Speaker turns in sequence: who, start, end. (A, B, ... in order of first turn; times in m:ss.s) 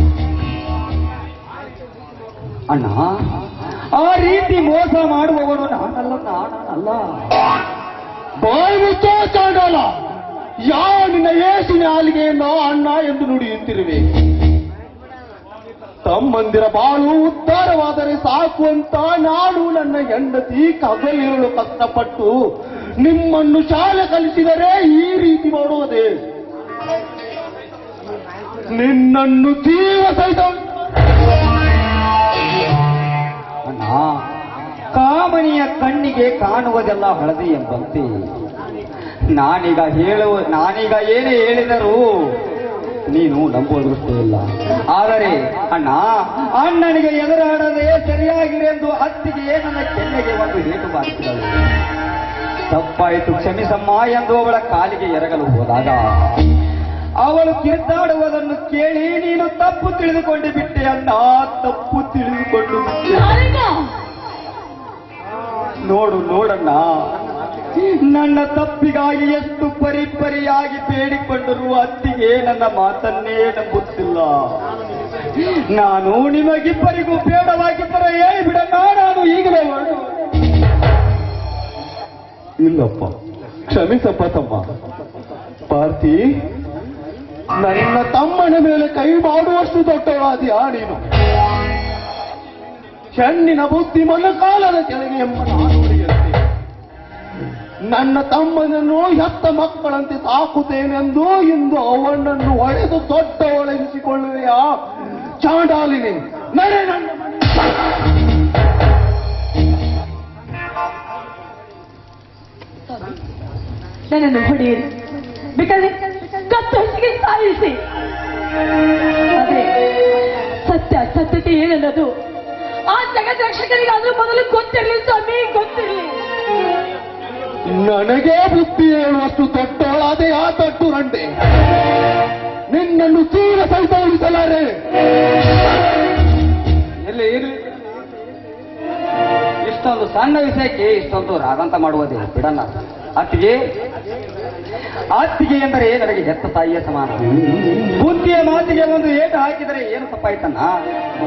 0:02.7-0:07.3 A
0:08.4-0:09.9 B
0:10.7-0:14.0 B
0:16.0-0:22.3 B
0:23.0-0:26.1 B
0:28.7-0:30.6 B
0:33.6-0:34.1 A
0:34.9-0:38.1 A
0:39.3-0:42.3 A
0:43.1-0:51.7 A
0:52.7-0:56.4 A
0:57.2-1:03.3 A
1:03.1-1:03.9 C
1:05.8-1:06.9 A
1:07.8-1:14.4 A
1:15.4-1:20.1 A
1:22.6-1:23.1 B
1:23.7-1:24.6 B
1:25.7-1:26.2 B
1:27.6-1:31.0 B
1:33.1-1:36.4 B
1:37.9-1:47.4 B
1:54.1-1:54.9 C
1:55.5-1:57.8 C
1:59.3-1:59.7 C
2:00.6-2:02.1 C
2:02.9-2:06.2 C
2:07.7-2:11.3 B
2:12.7-2:14.7 B
2:17.0-2:17.6 A
2:19.6-2:23.6 A
2:25.2-2:30.7 A